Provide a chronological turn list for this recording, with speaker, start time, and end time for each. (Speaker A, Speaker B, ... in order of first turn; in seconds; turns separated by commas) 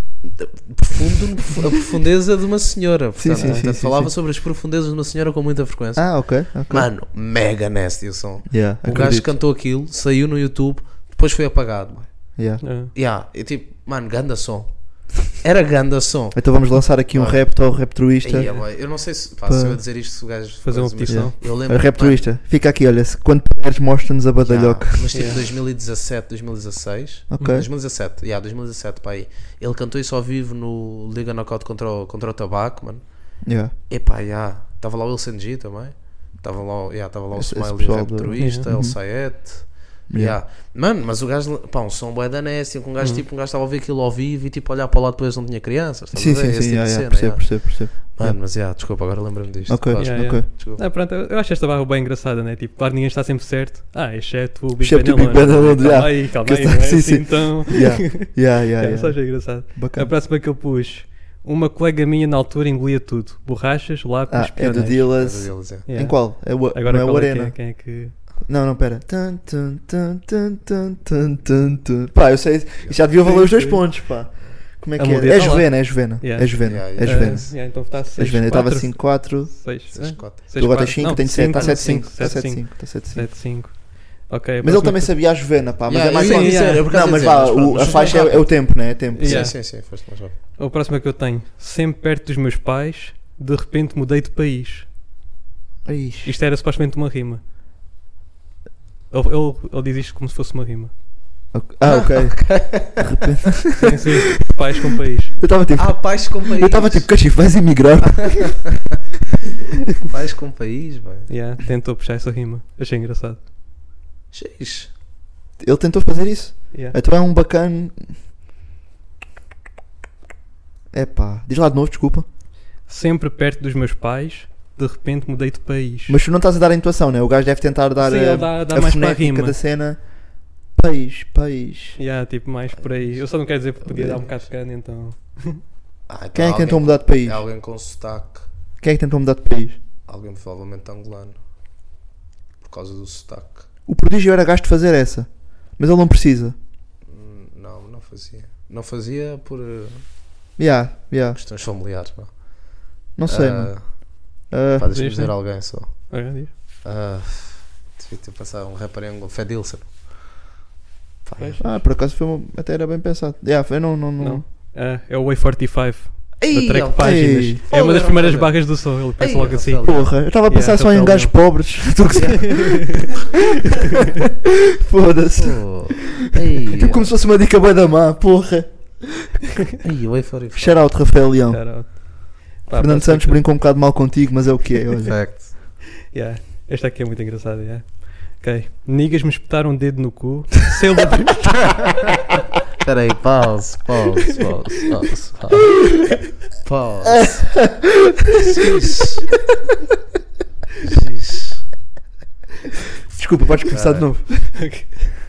Speaker A: 0.2-16.4, Speaker B: 3.1-4.1, Speaker C: 3.4-3.7, Speaker B: 6.0-6.9, Speaker B: 8.5-9.3, Speaker B: 12.4-12.6, Speaker C: 12.6-12.9, Speaker B: 16.3-18.9, Speaker A: 17.1-22.2, Speaker B: 19.4-19.8, Speaker C: 20.6-21.3, Speaker B: 21.0-25.3, Speaker A: 24.4-50.8, Speaker C: 25.1-25.4, Speaker B: 27.3-27.7, Speaker B: 33.4-33.7, Speaker B: 37.3-39.3, Speaker C: 38.4-38.6, Speaker B: 40.1-40.4, Speaker C: 43.0-43.2, Speaker B: 46.1-48.4, Speaker B: 49.7-50.5, Speaker C: 50.0-65.2, Speaker B: 54.8-60.1, Speaker B: 64.3-67.8, Speaker A: 64.7-65.9, Speaker C: 65.8-68.1, Speaker B: 68.4-79.9, Speaker C: 73.2-73.8, Speaker C: 75.0-85.2, Speaker A: 76.6-77.5, Speaker A: 79.9-80.8, Speaker B: 80.5-83.4, Speaker A: 81.4-82.4, Speaker B: 84.6-89.6, Speaker A: 85.9-90.4, Speaker C: 86.1-86.8, Speaker C: 87.8-89.8, Speaker C: 90.6-94.9, Speaker B: 95.8-96.3, Speaker C: 96.2-97.4, Speaker C: 99.1-100.9, Speaker B: 101.5-104.2, Speaker A: 101.8-103.0, Speaker C: 103.8-105.3, Speaker B: 105.4-108.7, Speaker A: 105.8-108.6, Speaker A: 110.0-111.3, Speaker C: 111.3-113.4, Speaker A: 114.3-114.9, Speaker B: 115.6-118.1, Speaker B: 120.9-122.3, Speaker C: 122.9-126.2, Speaker B: 126.1-130.0, Speaker C: 128.0-129.6, Speaker B: 130.7-132.0, Speaker C: 132.0-135.6, Speaker A: 132.8-134.4, Speaker B: 133.9-134.2, Speaker A: 136.1-138.5, Speaker B: 136.3-137.4, Speaker B: 138.8-139.8, Speaker A: 140.1-141.4, Speaker A: 142.6-143.7, Speaker B: 143.9-146.6, Speaker A: 147.1-150.1, Speaker B: 150.6-151.4, Speaker A: 151.3-154.2, Speaker B: 153.2-155.1, Speaker A: 154.8-160.0, Speaker C: 154.9-156.5, Speaker A: 161.2-161.8, Speaker C: 161.3-161.8, Speaker B: 161.6-164.4, Speaker C: 164.2-169.8, Speaker A: 166.5-170.1, Speaker B: 166.7-167.6, Speaker B: 169.8-173.1, Speaker C: 170.5-171.3, Speaker C: 172.4-173.1, Speaker B: 174.7-179.4, Speaker A: 175.4-177.1, Speaker A: 179.8-180.8, Speaker B: 180.5-182.0, Speaker C: 181.5-183.5, Speaker B: 182.7-185.1, Speaker A: 185.0-185.5, Speaker C: 186.1-191.6, Speaker A: 192.8-197.7, Speaker B: 197.0-198.4, Speaker A: 198.3-199.3, Speaker A: 200.8-201.7, Speaker B: 203.1-204.9, Speaker A: 203.7-204.3, Speaker C: 204.6-204.8